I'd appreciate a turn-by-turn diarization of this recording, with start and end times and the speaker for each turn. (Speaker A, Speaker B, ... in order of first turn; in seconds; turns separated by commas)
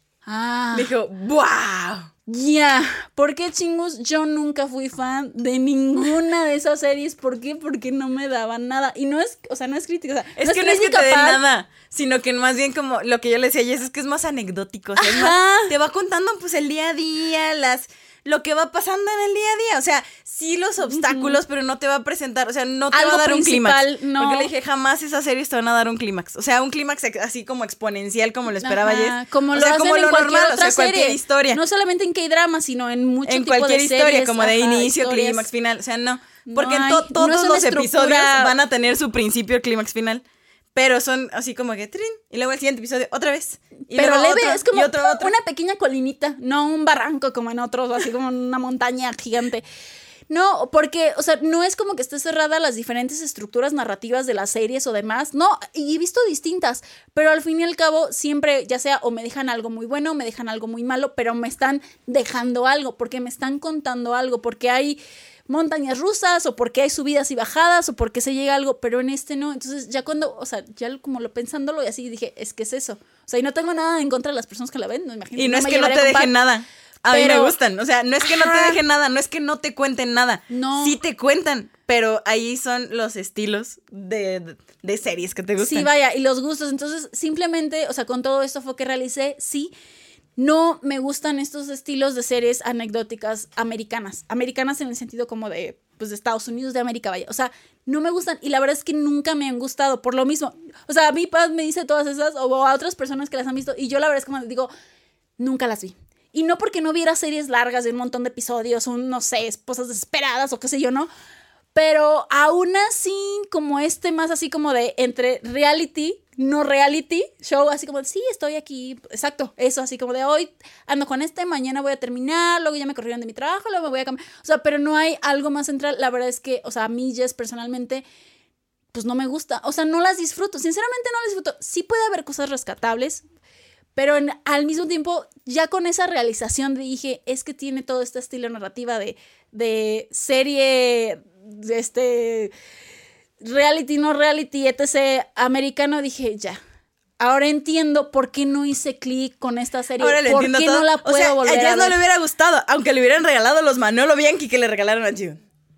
Speaker A: 0.2-0.9, Speaker B: 0.7-2.1, Speaker A: 2.3-11.4, Speaker B: 10.4-31.6, Speaker A: 15.0-15.7, Speaker A: 20.8-21.4, Speaker A: 22.9-24.5, Speaker A: 28.6-35.5, Speaker B: 33.3-40.2, Speaker A: 36.4-38.5, Speaker B: 40.7-45.3, Speaker A: 43.9-49.6, Speaker A: 50.3-76.3, Speaker B: 75.4-85.9, Speaker A: 77.1-77.5, Speaker A: 78.2-78.8, Speaker A: 80.5-81.0, Speaker A: 85.6-89.7, Speaker A: 90.4-104.7, Speaker A: 105.4-111.1, Speaker A: 111.7-128.0, Speaker A: 128.9-133.2, Speaker A: 133.9-142.5, Speaker A: 143.4-146.6, Speaker A: 147.2-152.0, Speaker B: 150.0-155.4